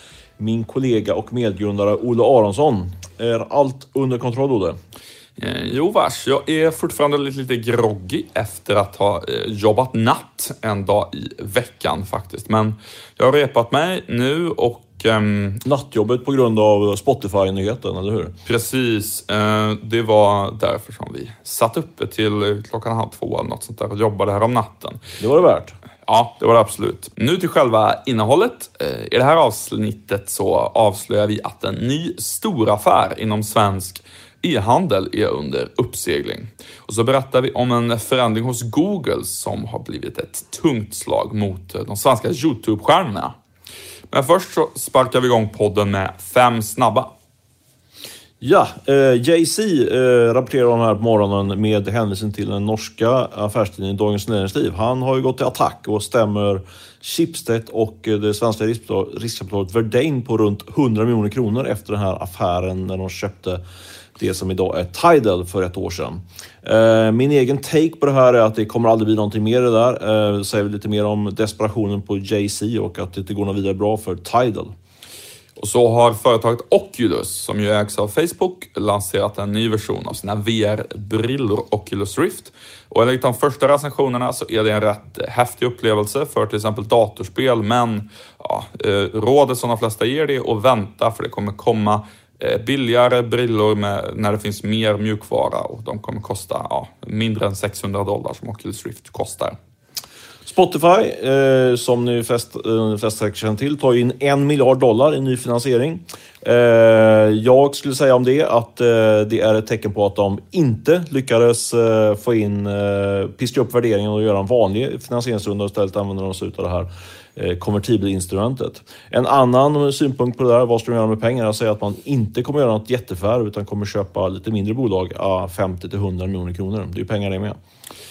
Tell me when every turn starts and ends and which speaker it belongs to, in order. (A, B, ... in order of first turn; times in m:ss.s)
0:00.4-0:04.8 A
0:05.4-0:15.6 B
0:15.6-0:18.3 A
0:18.4-0:25.0 B
0:25.2-0:25.7 A
0:26.0-0:43.3 B
0:44.1-0:47.1 B
0:48.4-1:03.6 A
1:04.2-1:14.7 A
1:15.6-1:39.6 B
1:40.4-2:07.6 A